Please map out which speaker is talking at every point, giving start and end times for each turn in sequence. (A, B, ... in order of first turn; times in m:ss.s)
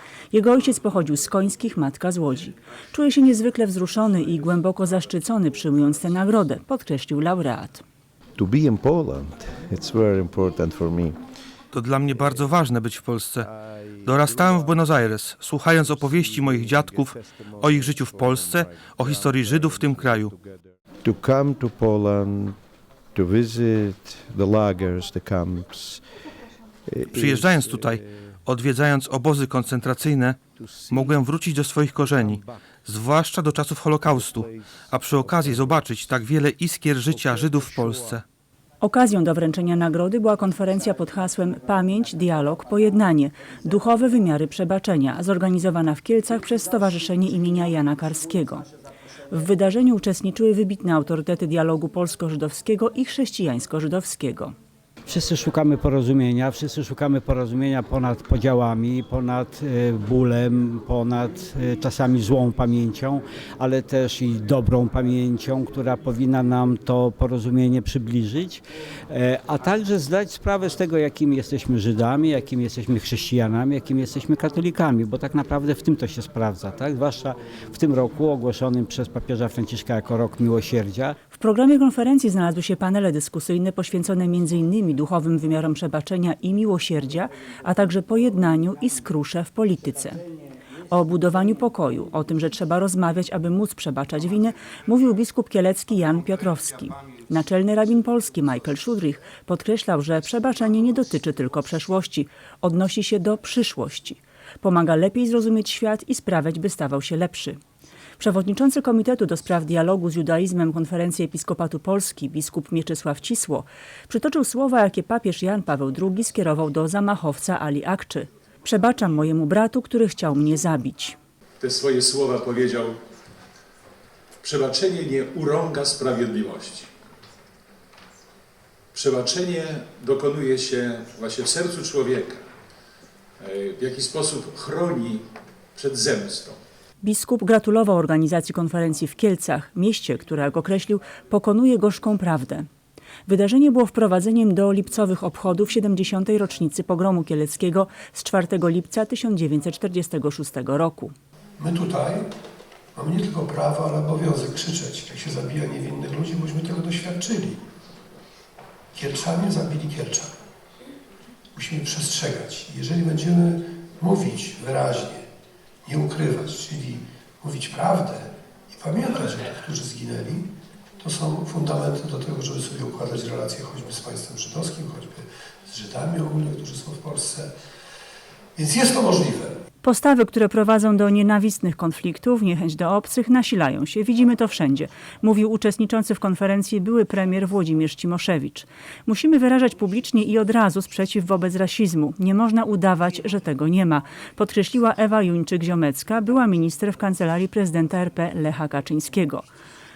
0:00.3-0:07.8 A
0:08.4-0:11.2 B
0:11.7-0:13.5 C
0:14.0-0:14.9 B
0:14.0-0:20.3 C
0:15.9-0:22.6 B
0:23.1-0:26.0 B
0:26.9-0:28.0 B
0:27.1-0:38.2 C
0:30.8-0:31.1 B
0:32.1-0:32.5 B
0:34.0-0:34.5 B
0:35.2-0:35.9 B
0:37.1-0:38.2 B
0:38.8-0:48.7 A
0:49.3-0:54.5 A
0:55.1-1:21.2 D
1:21.3-1:30.2 A
1:30.9-1:47.6 A
1:48.2-2:01.2 A
2:01.6-2:03.0 E
2:04.4-2:06.9 E
2:08.9-2:12.5 E
2:13.4-2:16.6 E
2:17.0-2:22.7 A
2:23.2-2:31.1 A
2:31.6-2:32.3 F
2:32.9-2:37.6 F
2:38.9-2:40.3 F
2:41.5-2:45.2 F
2:45.8-2:50.5 F
2:51.0-2:57.5 F
2:58.6-2:59.5 F
2:59.8-3:19.4 A